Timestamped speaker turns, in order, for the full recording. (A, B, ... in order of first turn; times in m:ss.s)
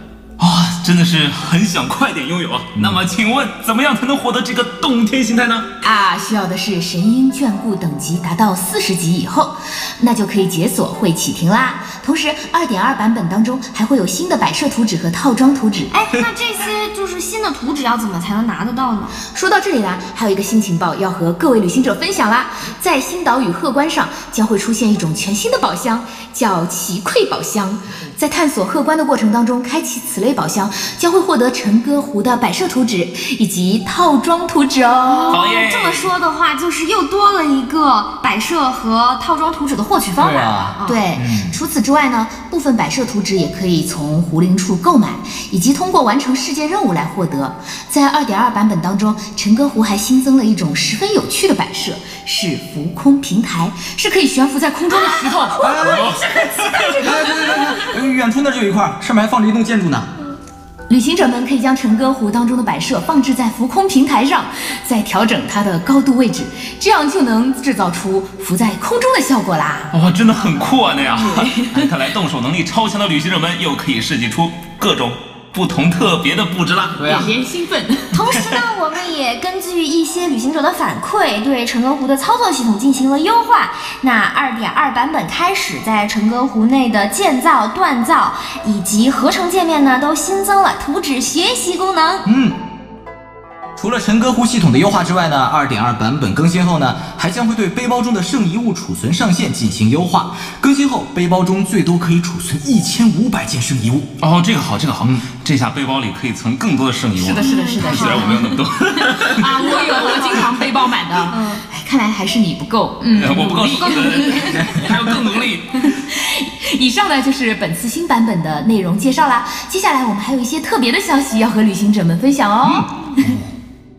0:00.4-0:05.7 A
0:05.8-0:15.9 B
0:15.9-0:19.2 C
0:19.3-0:35.4 B
0:35.1-0:41.0 C
0:35.3-0:36.1 A
0:40.2-0:41.6 D
0:40.8-0:55.9 B
0:55.0-0:57.6 C
0:55.6-1:00.1 D
0:55.8-0:56.9 A
1:00.9-1:09.9 B
1:09.9-1:17.0 A
1:17.0-1:17.3 D
1:17.0-1:18.2 B
1:18.1-1:32.3 C
1:18.3-1:18.6 A
1:32.3-1:32.6 D
1:33.8-1:44.1 D
1:44.2-1:50.4 A
1:47.2-1:54.8 B
1:47.3-1:48.6 C
1:49.6-1:50.4 C
1:51.3-1:51.6 C
1:53.2-1:55.9 A
1:53.8-1:54.6 C
1:54.6-1:55.0 D
1:55.8-2:03.4 B
2:02.6-2:03.4 D